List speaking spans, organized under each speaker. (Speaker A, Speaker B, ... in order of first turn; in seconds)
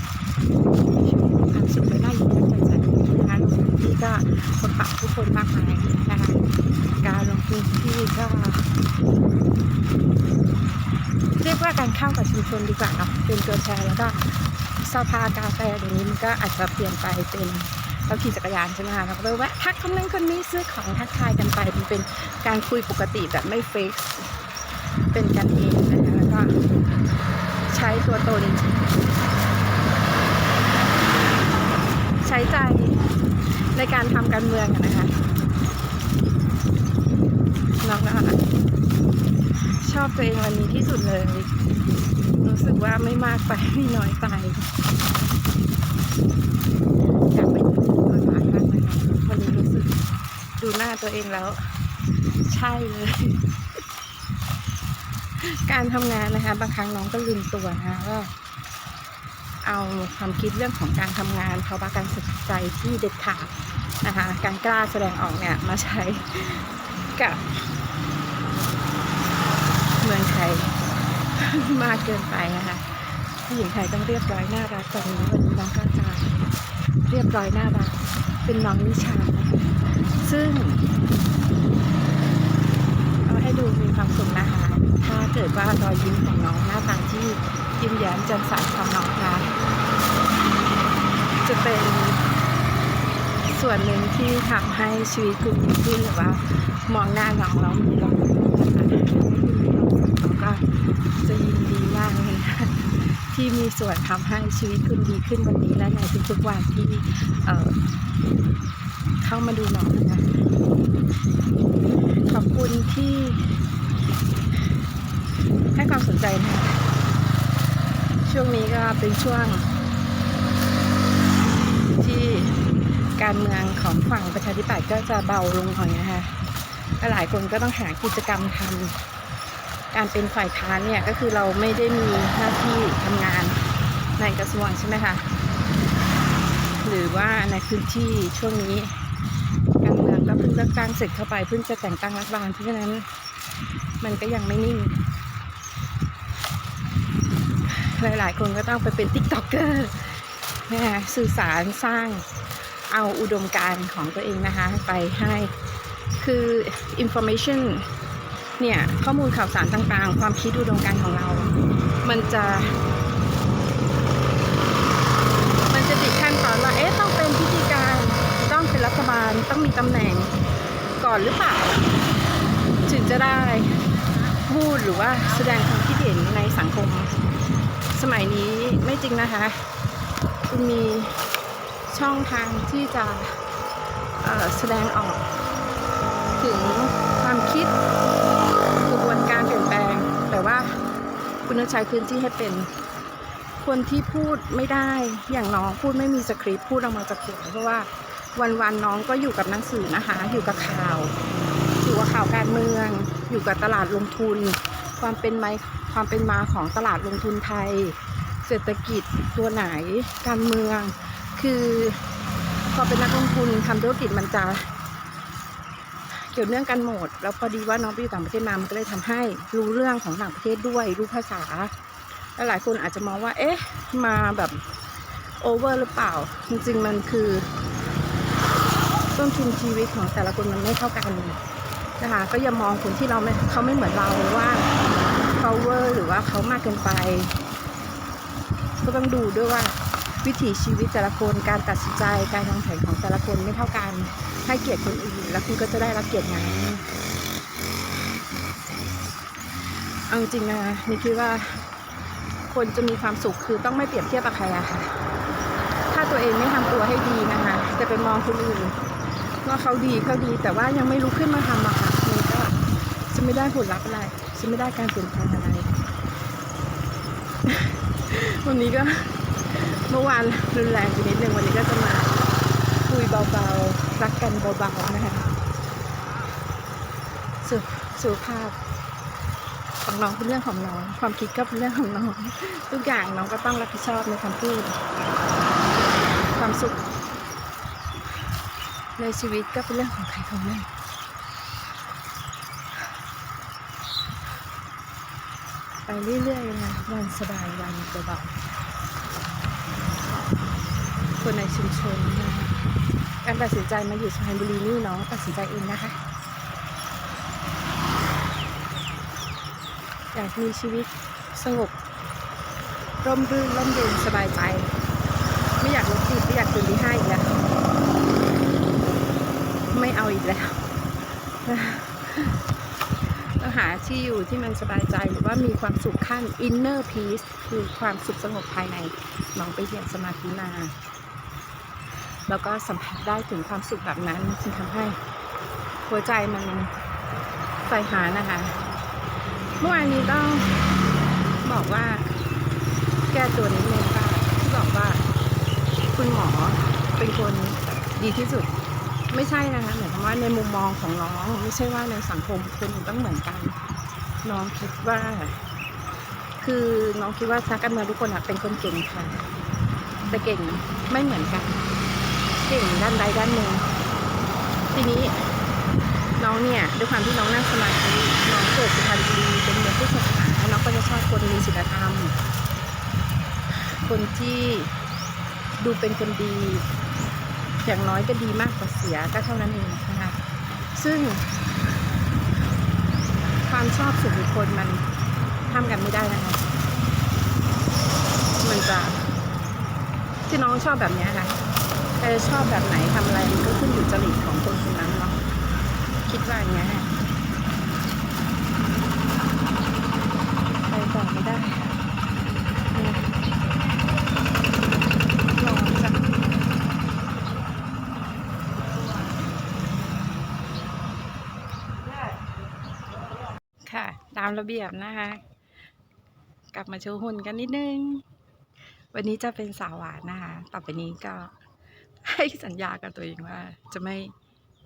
Speaker A: 0.9-8.7, 11.4-24.5, 25.1-26.7, 27.7-28.8, 32.2-35.3, 37.8-38.4, 39.8-41.5, 42.4-44.7, 47.3-50.0, 50.6-53.5, 55.4-58.3, 59.6-67.7, 70.0-76.4, 77.0-80.9, 83.2-89.6, 91.4-92.2, 93.4-107.8, 109.2-110.4, 112.2-113.6, 115.7-116.8, 118.2-119.7, 121.9-126.3, 126.8-129.0, 129.9-133.6, 134.2-135.2, 136.8-139.0, 139.8-143.1, 144.0-145.0, 147.7-152.3, 152.9-155.5, 156.1-157.9, 158.6-162.8, 165.7-170.3, 171.0-171.8, 172.9-173.8, 174.4-177.1, 177.9-179.7, 180.5-181.2, 181.9-183.4, 184.2-185.3, 186.4-187.8, 188.8-190.8, 191.4-192.7, 193.6-201.1, 201.8-212.0, 212.7-214.7, 216.1-221.7, 222.4-224.7, 225.4-227.5, 229.1-231.4, 232.0-234.7, 235.3-237.4, 238.8-246.8, 250.1-251.7, 252.5-255.0, 255.9-258.8, 259.4-265.8, 267.4-275.3, 277.4-278.6, 279.8-284.8, 286.3-286.8, 289.0-290.7, 295.9-298.4, 301.2-302.5, 303.2-306.0, 310.1-311.8, 313.0-314.7, 315.6-317.4, 319.7-320.7, 321.4-322.4, 323.1-330.7, 332.3-335.0, 335.9-336.7, 337.6-338.6, 339.6-340.6, 341.4-342.1, 343.1-345.0, 345.9-348.5, 349.1-353.6, 354.2-355.4, 356.4-359.2, 360.1-361.6, 362.4-363.7, 364.7-365.3, 366.2-372.1, 373.6-374.7, 375.6-376.6, 377.6-380.2, 380.7-381.3, 383.4-384.8, 385.5-386.5, 388.4-389.1, 390.3-391.3, 392.0-395.2, 396.1-396.9, 400.7-401.8, 402.7-403.1, 405.3-406.1, 413.6-415.2, 416.5-418.0, 418.9-421.4, 422.0-424.1